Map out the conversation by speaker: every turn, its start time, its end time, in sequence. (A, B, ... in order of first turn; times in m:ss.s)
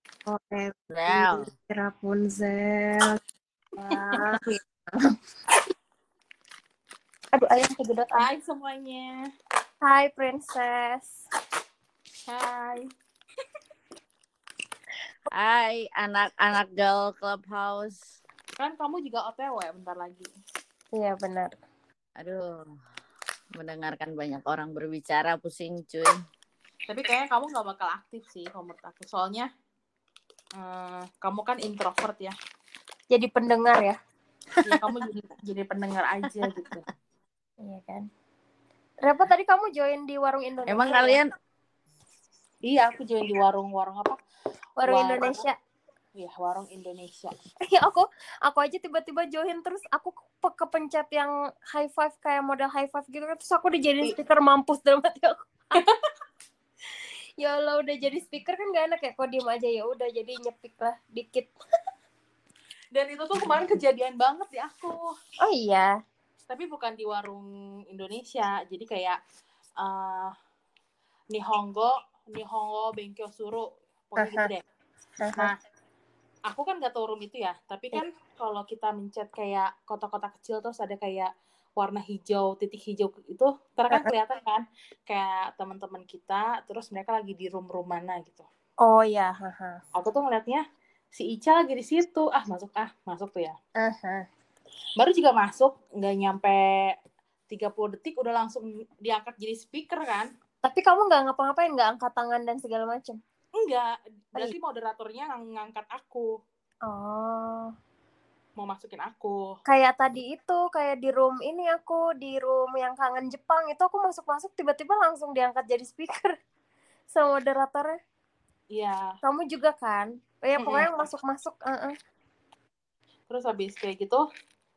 0:00.3-0:03.1 A
0:00.9-0:01.5 B
0:03.8-0:04.6 A
0:07.3-0:08.2 A
0:08.1-0:09.2 C
0:09.8-0:11.2 A
0:12.3-0:12.9 C
0:15.3-0:18.0 B
0:18.6-0:20.3 C
0:20.9-0:21.6 A
0:22.2-0:22.8 B
0:23.6-0:26.1 B
0:26.9-0:29.5 C
0:30.6-0:32.3 C
0:33.1-0:34.0 A
0:34.6-0:36.8 C
0:37.6-0:38.1 A
0:39.0-0:41.2 A
0:40.7-0:41.3 B
0:42.6-0:44.2 C
0:44.8-0:45.5 A
0:44.8-0:45.4 C
0:46.2-0:47.3 C
0:47.6-0:55.5 A
0:57.4-1:01.5 A
1:02.9-1:05.0 C
1:05.4-1:05.9 A
1:06.5-1:09.2 C
1:09.8-1:10.3 C
1:11.3-1:14.6 C
1:14.2-1:14.5 A
1:15.2-1:15.5 A
1:16.5-1:28.4 C
1:28.8-1:29.8 A
1:29.9-1:30.6 C
1:31.1-1:33.5 C
1:33.8-1:34.2 A
1:35.0-1:36.9 C
1:37.5-1:40.3 C
1:40.6-1:43.2 A
1:43.6-1:46.3 C
1:46.9-1:47.7 A
1:48.6-1:49.4 C
1:49.7-1:56.3 A
1:57.1-1:58.0 A
1:58.7-1:59.1 C
1:59.2-2:01.9 A
2:00.6-2:00.9 C
2:03.3-2:04.2 C